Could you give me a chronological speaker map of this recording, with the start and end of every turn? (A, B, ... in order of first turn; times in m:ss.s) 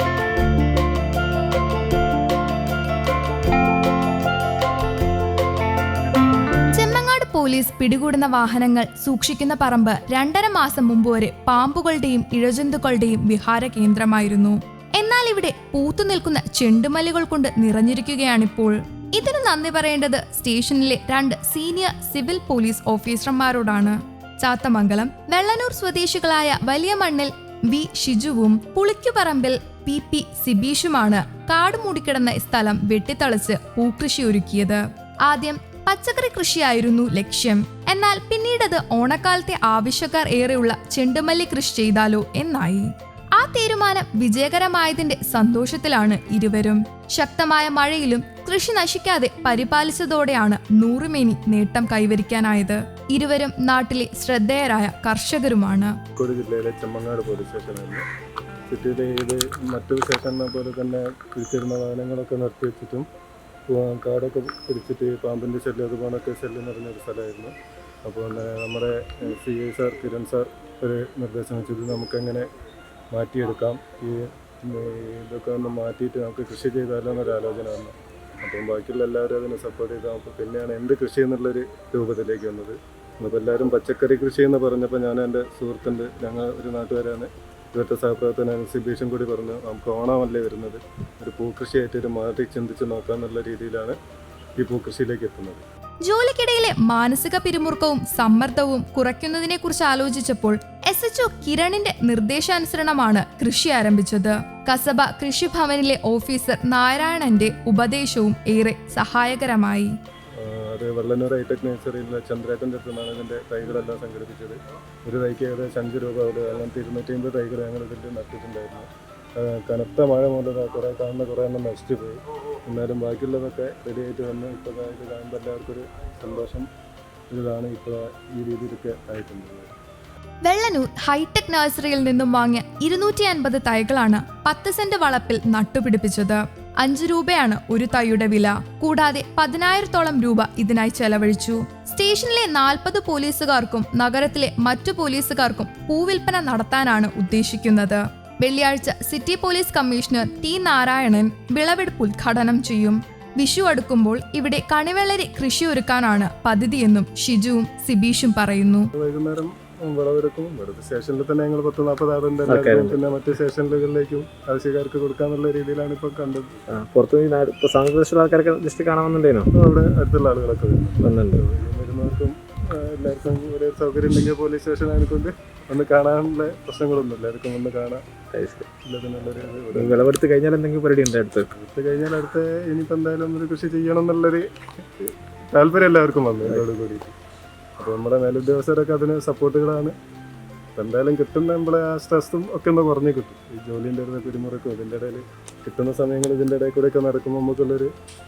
0:06.7-0:56.0 A
0:56.2-0:58.0 B
0:58.7-1:03.1 B
1:03.7-1:12.5 B
1:13.1-1:34.0 B
1:34.6-1:35.6 B
1:36.0-1:49.9 A
1:50.4-2:06.7 B
2:07.3-2:09.8 B
2:10.4-2:38.9 A
2:38.9-2:46.6 B
2:42.5-2:43.0 C
2:46.7-2:49.5 C
2:49.5-2:58.0 B
2:51.0-2:51.4 C
2:58.3-2:58.7 C
2:58.8-3:00.1 B
2:59.7-3:01.5 C
3:01.5-3:07.2 B
3:07.8-3:10.0 B
3:10.8-3:17.9 B